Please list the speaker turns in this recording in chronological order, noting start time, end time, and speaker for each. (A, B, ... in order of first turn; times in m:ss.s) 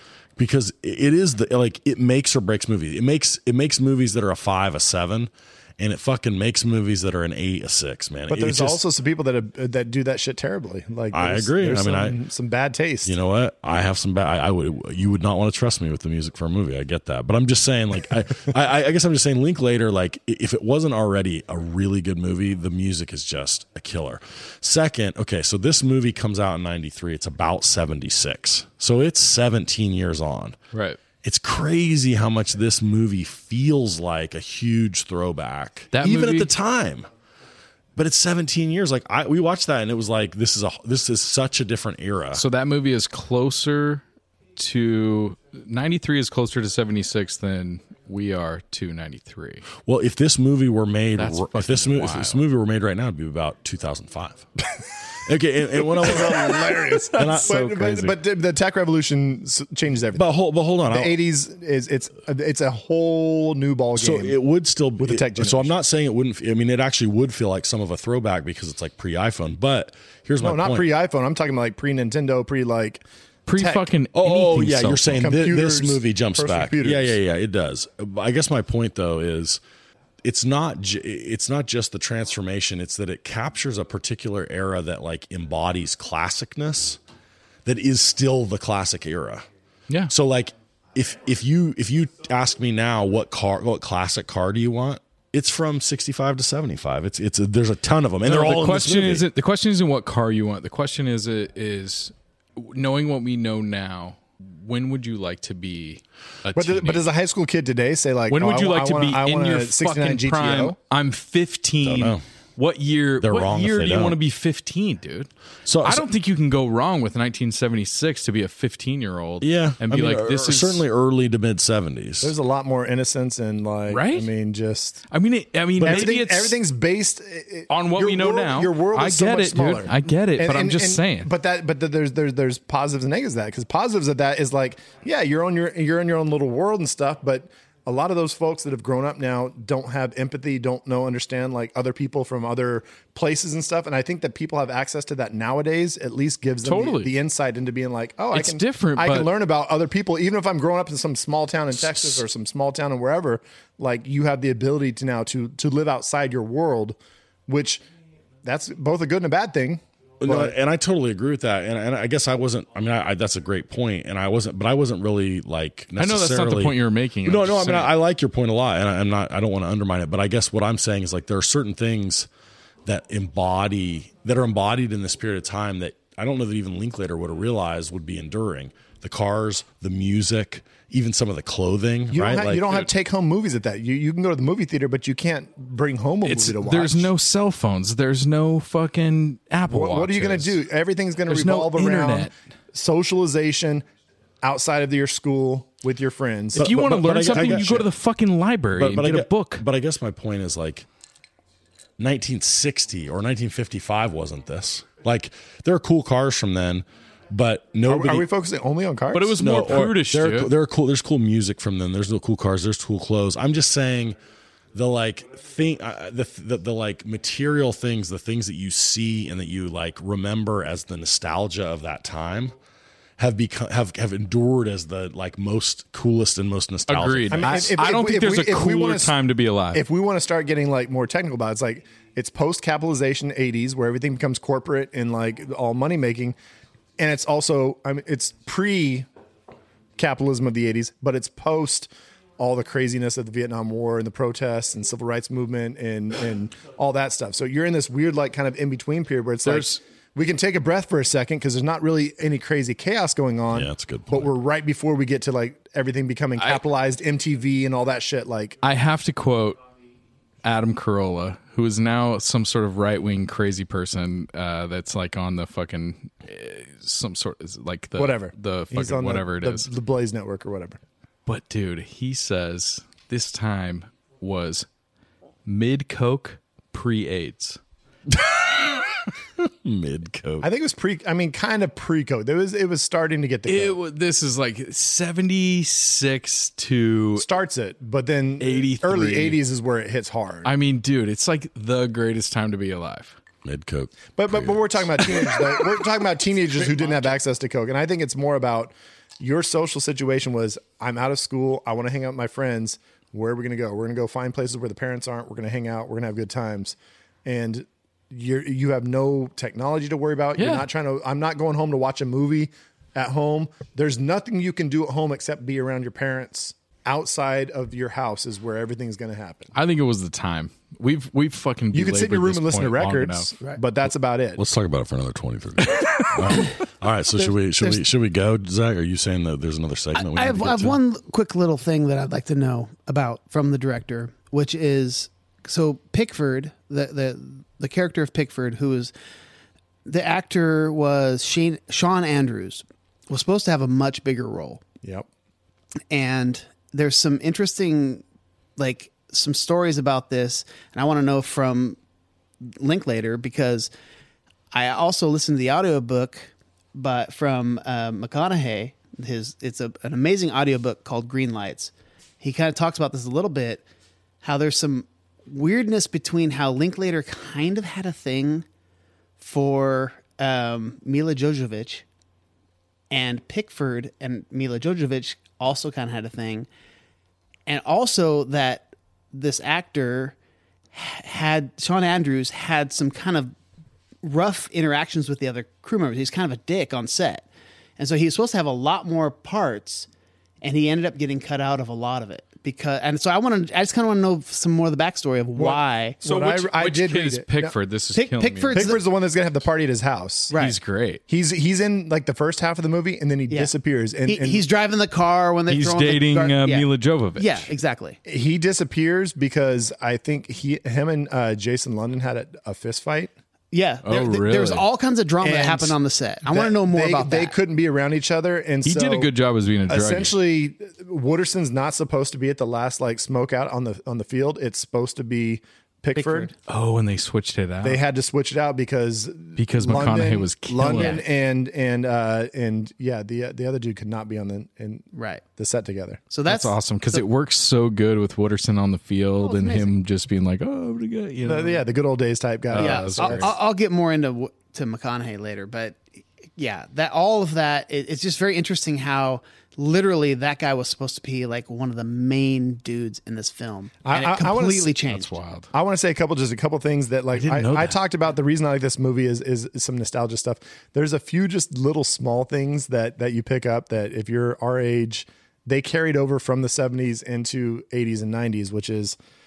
0:00.4-0:08.8 A
0:08.3-0:13.2 B
0:11.1-0:12.2 A
0:13.1-0:30.6 A
0:30.7-0:31.0 C
0:31.2-0:37.1 A
0:35.9-0:36.5 C
0:38.0-0:42.4 A
0:42.3-0:44.0 C
0:44.6-0:49.7 C
0:49.8-0:54.4 A
0:51.2-0:52.4 C
0:55.2-0:58.2 A
0:55.9-1:00.3 B
0:57.1-0:57.6 C
1:00.2-1:01.1 A
1:00.9-1:04.4 B
1:04.0-1:10.9 A
1:05.0-1:05.8 B
1:10.4-1:13.0 B
1:13.5-1:15.3 C
1:13.5-1:13.9 B
1:14.2-1:19.6 A
1:15.2-1:17.2 B
1:20.2-1:27.0 A
1:27.6-1:29.5 A
1:30.1-1:39.3 A
1:38.2-1:47.1 C
1:46.5-1:50.8 B
1:48.3-1:55.3 C
1:51.8-1:52.2 A
1:53.2-1:54.2 A
1:55.7-1:56.1 A
1:55.8-2:00.9 C
1:59.4-2:02.4 A
2:02.2-2:05.0 B
2:03.9-2:04.3 C
2:05.1-2:06.6 C
2:05.8-2:37.8 B
2:07.7-2:11.3 C
2:26.6-2:27.1 C
2:28.3-2:29.3 C
2:38.4-2:40.6 B
2:40.2-2:52.3 A
2:46.0-2:48.0 C
2:52.8-3:02.9 A
3:02.1-3:07.1 B
3:06.2-3:10.6 C
3:09.7-3:13.8 B
3:11.3-3:12.3 C
3:14.4-3:16.8 B
3:16.6-3:17.9 A
3:16.6-3:19.6 C
3:17.3-3:17.7 B
3:18.8-3:20.9 A
3:22.0-3:28.3 A
3:27.8-3:29.4 B
3:29.1-3:30.5 C
3:29.4-3:34.2 A
3:34.8-3:42.5 A
3:43.2-3:47.7 A
3:46.9-3:49.8 C
3:47.3-3:49.2 B
3:49.7-3:56.4 B
3:57.0-3:59.1 B
4:00.0-4:18.6 B
4:09.4-4:09.8 C
4:13.5-4:14.3 A
4:18.6-4:19.6 C
4:20.4-4:29.7 C
4:28.0-4:30.8 B
4:31.3-4:34.7 C
4:35.5-4:37.6 C
4:38.1-4:40.5 A
4:40.4-4:43.8 B
4:43.5-4:47.3 C
4:47.2-4:50.5 B
4:48.4-4:49.4 C
4:50.4-4:53.2 C
4:53.4-4:54.6 A
4:54.2-5:19.5 B
4:55.2-4:55.5 C
5:10.4-5:10.7 C
5:19.5-5:23.3 C
5:21.7-5:24.4 B
5:24.4-5:30.8 A
5:30.0-5:38.9 D
5:39.9-5:44.6 D
5:44.8-5:45.1 B
5:45.9-5:48.0 D
5:48.6-5:51.8 D
5:52.4-5:53.7 D
5:54.5-6:03.6 D
6:04.2-6:08.5 D
6:09.2-6:11.8 D
6:12.9-6:16.5 D
6:17.5-6:20.2 D
6:20.7-6:23.3 D
6:24.0-6:27.3 D
6:27.8-6:29.9 D
6:30.4-6:36.0 D
6:35.4-6:37.6 B
6:36.0-6:38.7 C
6:37.9-6:38.8 D
6:38.5-6:40.4 B
6:40.3-6:40.6 D
6:40.3-6:41.0 C
6:41.1-6:44.5 B
6:43.3-6:43.5 D
6:44.0-6:48.0 D
6:45.5-6:47.5 C
6:48.0-6:53.1 B
6:53.5-6:57.4 D
6:53.8-6:54.6 C
6:55.2-6:59.1 B
6:58.6-7:00.1 C
6:59.7-7:06.3 B
7:06.0-7:06.3 D
7:06.5-7:07.8 C
7:07.6-7:16.0 B
7:09.4-7:11.0 C
7:10.7-7:11.0 D
7:14.9-7:15.2 D
7:16.1-7:17.0 D
7:16.3-7:21.6 C
7:19.2-7:19.8 D
7:21.2-7:23.3 B
7:22.5-7:23.3 C
7:22.6-7:35.2 D
7:33.8-7:34.8 B
7:34.9-7:35.5 C
7:35.5-7:49.0 B
7:37.1-7:37.8 C